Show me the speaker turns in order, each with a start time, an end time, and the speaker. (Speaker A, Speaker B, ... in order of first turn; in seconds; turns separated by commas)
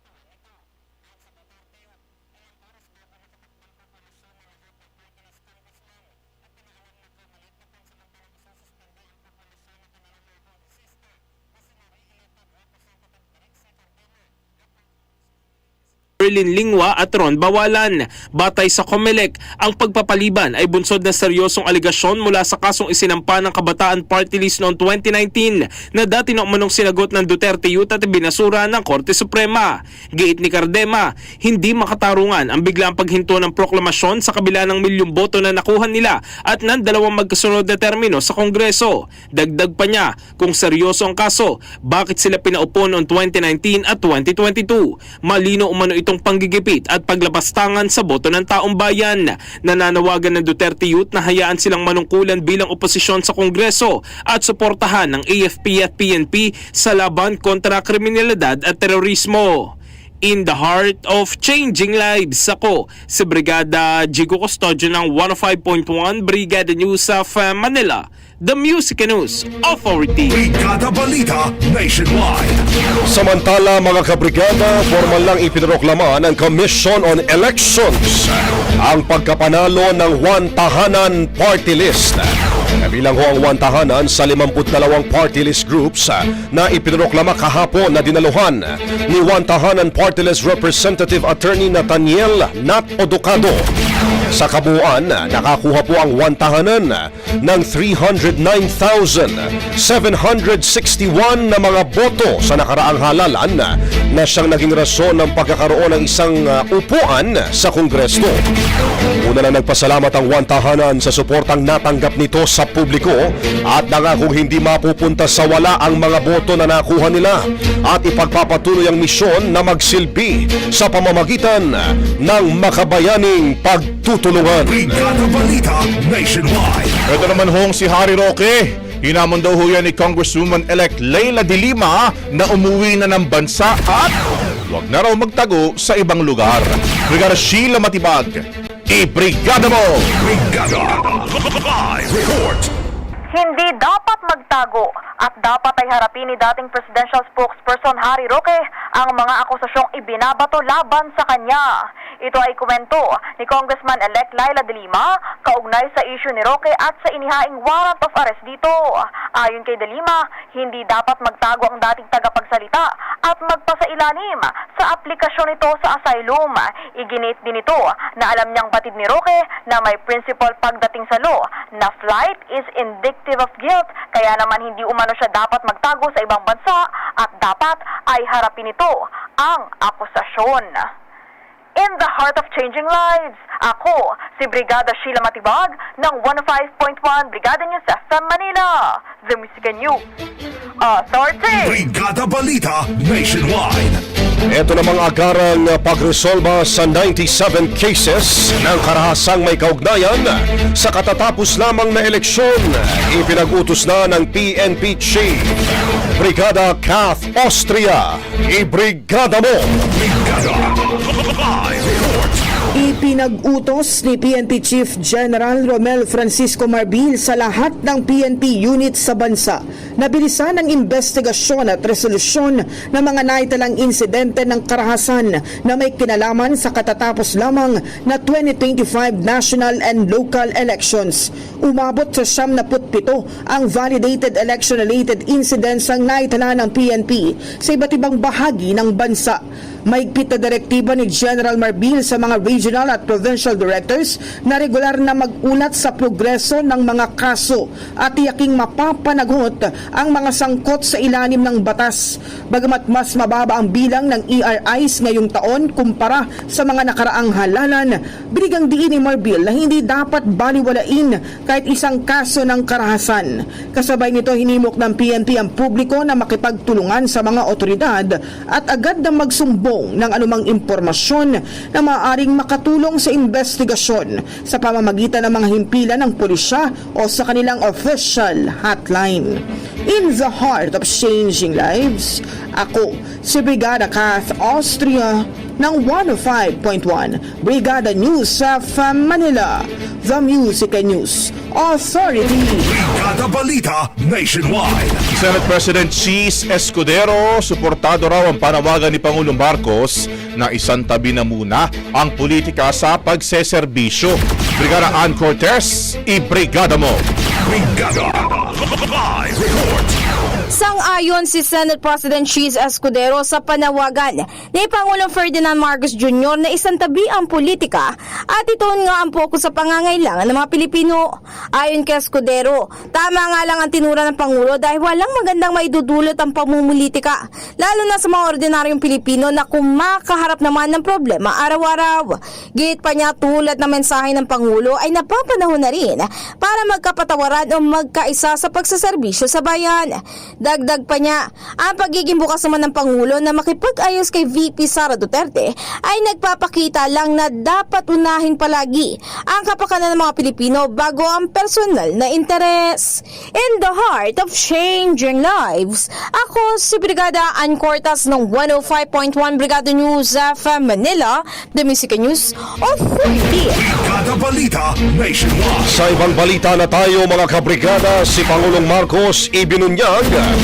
Speaker A: 16.2-70.4, Speaker B: 70.2-72.6, Speaker C: 73.1-93.7, Speaker C: 94.3-108.4, Speaker C: 109.2-124.9, Speaker B: 124.6-127.0, Speaker D: 127.1-134.2, Speaker D: 134.7-140.1, Speaker B: 140.2-142.7, Speaker E: 143.3-151.6, Speaker E: 152.2-158.8, Speaker E: 159.4-180.9, Speaker E: 181.8-190.0, Speaker E: 190.8-191.8, Speaker B: 191.6-194.0, Speaker C: 194.5-205.6, Speaker C: 206.2-209.8, Speaker B: 209.9-212.4, Speaker F: 212.7-292.7, Speaker B: 292.6-295.0, Speaker D: 295.1-307.0, Speaker B: 307.4-309.9, Speaker G: 310.5-363.6, Speaker B: 363.5-365.7, Speaker C: 365.7-370.3